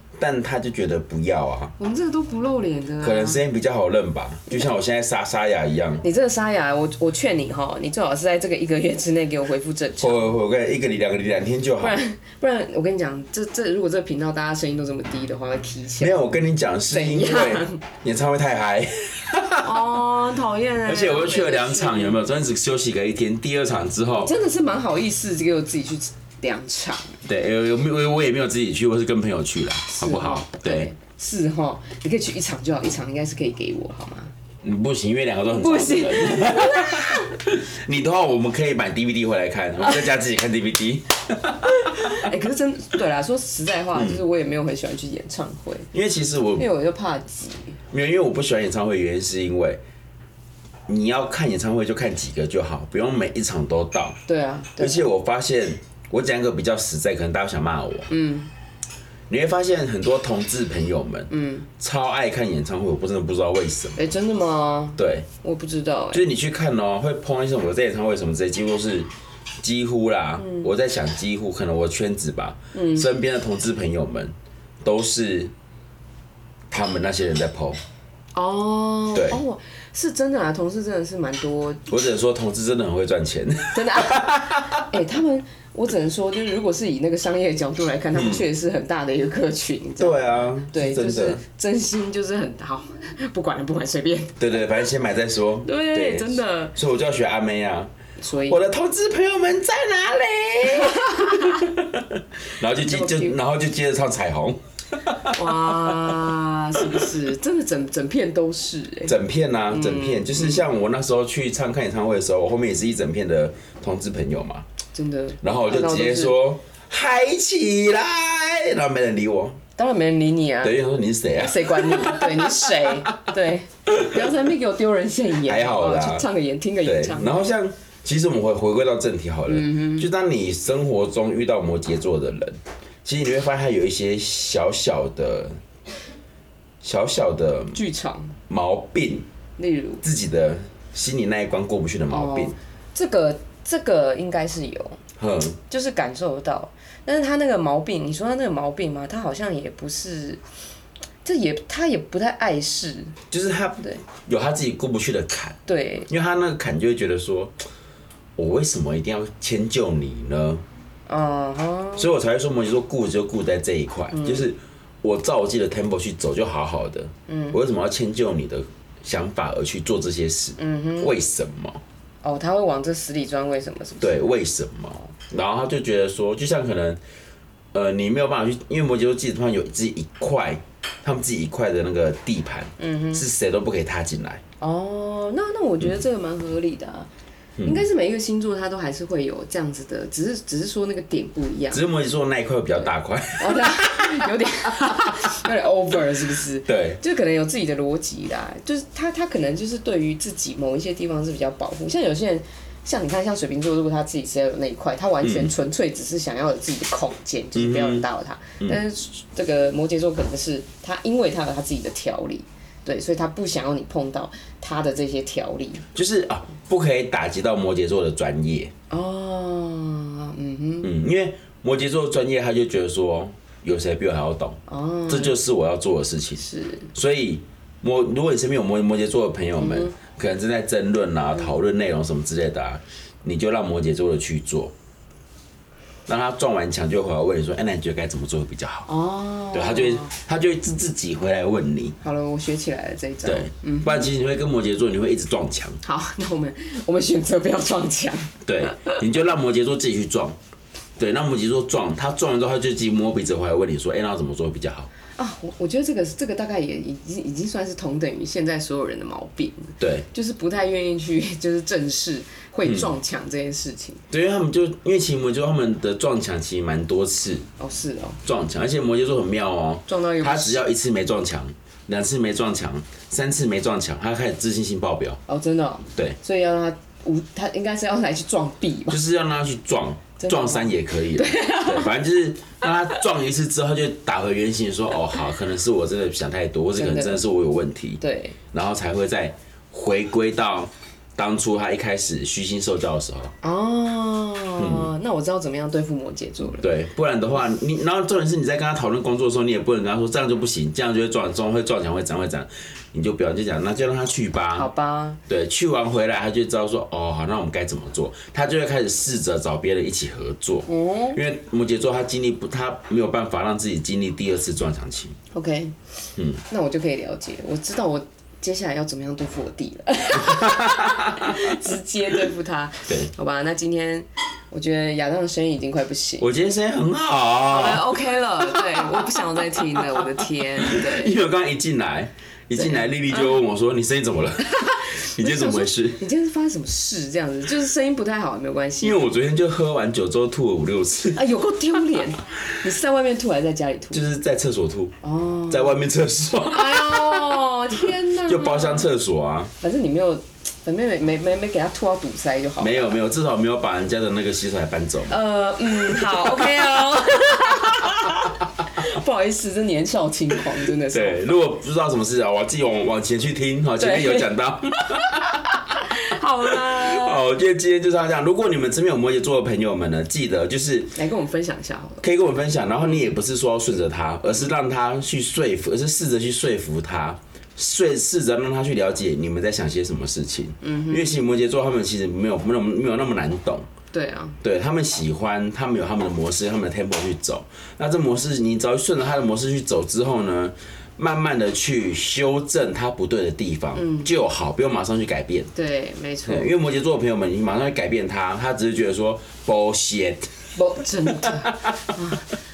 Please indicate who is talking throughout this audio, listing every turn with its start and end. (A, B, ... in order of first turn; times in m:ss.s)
0:00.2-0:01.7 A
0:01.8-0:03.4 B
0:03.0-0:06.0 A
0:06.0-0:10.3 B
0:10.0-0:12.0 A
0:11.8-0:16.2 B
0:16.0-0:20.0 A
0:16.9-0:17.8 B
0:19.6-0:22.2 B
0:20.8-0:24.3 A
0:24.2-0:27.2 B
0:27.2-0:30.9 A
0:29.9-0:34.3 B
0:34.6-0:42.3 A
0:35.5-0:37.3 B
0:41.7-0:45.9 B
0:44.0-0:44.2 A
0:45.9-0:46.7 A
0:46.6-0:47.8 B
0:47.9-0:49.8 A
0:50.9-0:54.2 A
0:54.3-0:55.1 B
0:54.8-0:58.1 A
0:58.1-0:58.5 B
0:59.3-1:04.0 A
1:01.3-1:01.7 B
1:04.0-1:06.2 B
1:05.0-1:05.3 A
1:06.1-1:09.1 A
1:09.6-1:15.5 A
1:10.4-1:10.7 B
1:12.7-1:13.1 B
1:16.7-1:17.8 A
1:18.3-1:21.9 B
1:19.1-1:19.4 A
1:21.9-1:24.9 A
1:23.7-1:34.4 B
1:28.1-1:28.4 A
1:30.0-1:31.4 A
1:34.4-1:37.9 A
1:35.6-1:36.8 B
1:38.2-1:38.6 B
1:38.5-1:46.2 A
1:40.7-1:41.7 B
1:42.8-1:43.4 B
1:45.3-1:49.1 B
1:46.8-1:47.1 A
1:49.1-1:54.7 A
1:49.7-1:50.7 B
1:54.9-1:56.4 B
1:55.4-1:59.6 A
1:59.8-2:00.8 B
2:00.6-2:02.8 A
2:01.4-2:07.5 B
2:05.5-2:06.3 A
2:06.8-2:15.6 A
2:09.5-2:10.1 B
2:16.8-2:17.8 A
2:17.7-2:18.4 B
2:18.5-2:19.3 A
2:19.6-2:20.0 B
2:20.0-2:22.6 A
2:22.1-2:25.0 B
2:25.2-2:25.6 A
2:25.7-2:30.4 B
2:31.2-2:33.2 B
2:33.3-2:37.6 A
2:35.7-2:36.1 B
2:38.4-2:40.6 A
2:41.1-2:42.1 B
2:42.0-2:51.8 A
2:44.1-2:44.5 B
2:47.3-2:47.6 B
2:50.6-2:51.2 B
2:52.2-2:54.2 B
2:54.0-2:57.0 A
2:57.7-3:04.4 A
3:02.8-3:03.2 B
3:04.6-3:07.1 B
3:07.6-3:07.8 A
3:07.6-3:11.8 B
3:11.7-3:14.3 A
3:13.4-3:35.8 B
3:16.7-3:17.0 A
3:25.2-3:25.5 A
3:27.6-3:28.1 A
3:35.9-3:38.7 A
3:38.9-3:40.9 B
3:40.8-3:54.7 A
3:44.7-3:45.4 B
3:46.4-3:46.9 B
3:49.6-3:49.9 B
3:56.1-3:58.9 A
3:58.9-4:00.1 B
3:59.5-4:02.0 A
4:02.0-4:04.1 B
4:03.2-4:05.8 A
4:05.8-4:09.0 B
4:08.4-4:10.4 A
4:11.0-4:14.9 A
4:15.2-4:24.0 B
4:19.8-4:20.1 A
4:22.6-4:23.0 A
4:24.1-4:27.4 A
4:27.6-4:28.2 B
4:28.2-4:35.2 A
4:29.9-4:30.6 B
4:35.3-4:39.0 B
4:38.9-4:53.3 A
4:40.2-4:42.0 B
4:46.8-4:47.2 B
4:48.0-4:48.4 B
4:53.4-4:56.7 B
4:54.6-4:54.9 A
4:56.6-5:04.7 A
5:04.6-5:05.2 B
5:05.3-5:15.2 A
5:10.7-5:11.2 B
5:15.3-5:15.8 B
5:16.2-5:16.4 A
5:16.5-5:26.3 B
5:20.2-5:21.6 A
5:26.2-5:36.0 A
5:27.5-5:31.2 B
5:32.6-5:33.4 B
5:34.4-5:39.0 B
5:38.8-5:41.2 A
5:41.1-5:44.0 B
5:43.9-5:45.0 A
5:45.0-5:45.8 B
5:45.5-5:47.4 A
5:46.5-5:48.9 B
5:48.2-5:49.5 A
5:49.6-5:53.0 B
5:52.6-5:55.2 A
5:55.1-6:01.2 B
5:55.8-5:56.5 A
5:57.6-5:58.1 A
6:00.9-6:05.8 A
6:03.8-6:04.3 B
6:05.8-6:07.3 B
6:06.5-6:11.0 A
6:11.0-6:12.0 B
6:12.0-6:23.7 A
6:12.8-6:13.1 B
6:20.6-6:21.1 B
6:23.9-6:24.4 B
6:24.4-6:35.5 A
6:33.8-6:34.1 B
6:35.6-6:36.5 B
6:36.2-6:40.3 A
6:40.6-6:42.2 B
6:41.1-6:41.5 A